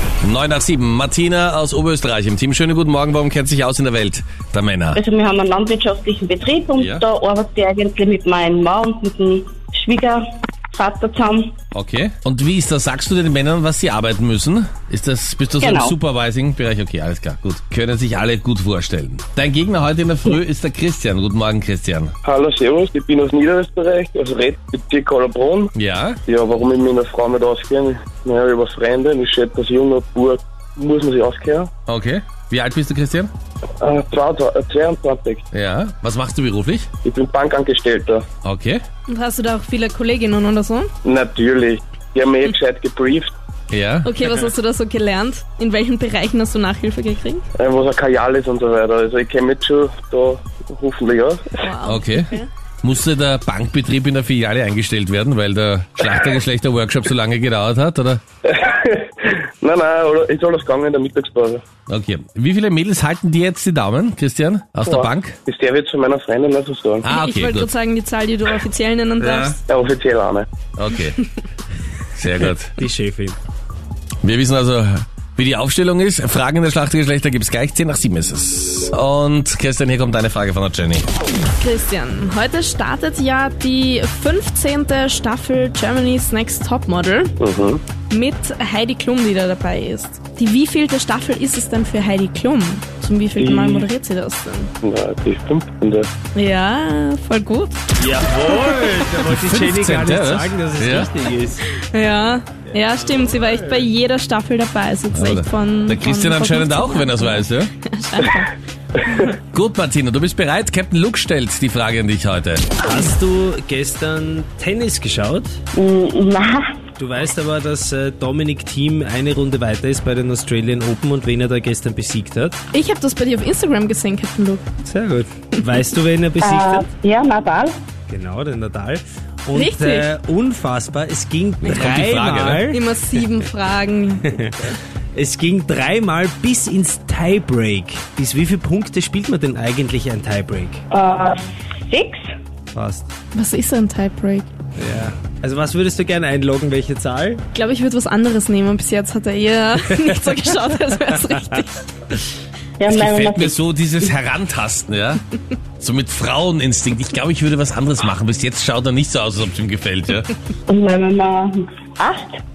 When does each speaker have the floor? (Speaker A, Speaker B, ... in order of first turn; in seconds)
Speaker A: 0.2-5.0, 6.8-7.0, 11.7-22.1, 25.7-26.2, 31.9-33.3, 35.5-36.9, 38.4-38.8, 43.7-44.1, 51.8-52.3, 52.8-58.2, 61.9-65.4, 67.0-67.7, 69.2-69.5, 70.8-71.2, 72.1-72.8, 74.2-81.0, 99.2-101.1, 105.1-107.7, 109.5-112.7, 131.6-132.6, 152.9-155.2, 155.8-160.3
Speaker B: 4.9-10.2, 10.7-11.5, 115.7-116.8, 126.4-127.8, 140.9-142.2, 152.8-153.5, 160.7-162.4
Speaker C: 22.2-25.7, 26.2-31.7, 33.8-35.4, 37.0-38.2, 41.0-43.3, 47.5-51.6, 58.4-61.6, 64.8-67.0, 69.7-70.5, 87.4-87.8, 93.4-93.9, 94.8-96.1
Speaker D: 39.1-40.9, 44.0-47.4, 51.6-52.5, 67.1-69.6, 81.6-87.3, 88.1-94.7, 96.3-97.8, 98.5-98.9, 101.7-108.5, 109.0-109.3, 122.7-124.7, 129.5-130.1, 132.7-134.4, 143.3-144.5, 147.5-152.2
Speaker E: 72.8-73.4, 98.0-101.7, 102.7-103.8, 112.8-115.6, 117.0-122.6, 124.8-126.9, 128.1-133.2, 134.2-140.8, 142.7-143.1, 144.8-147.4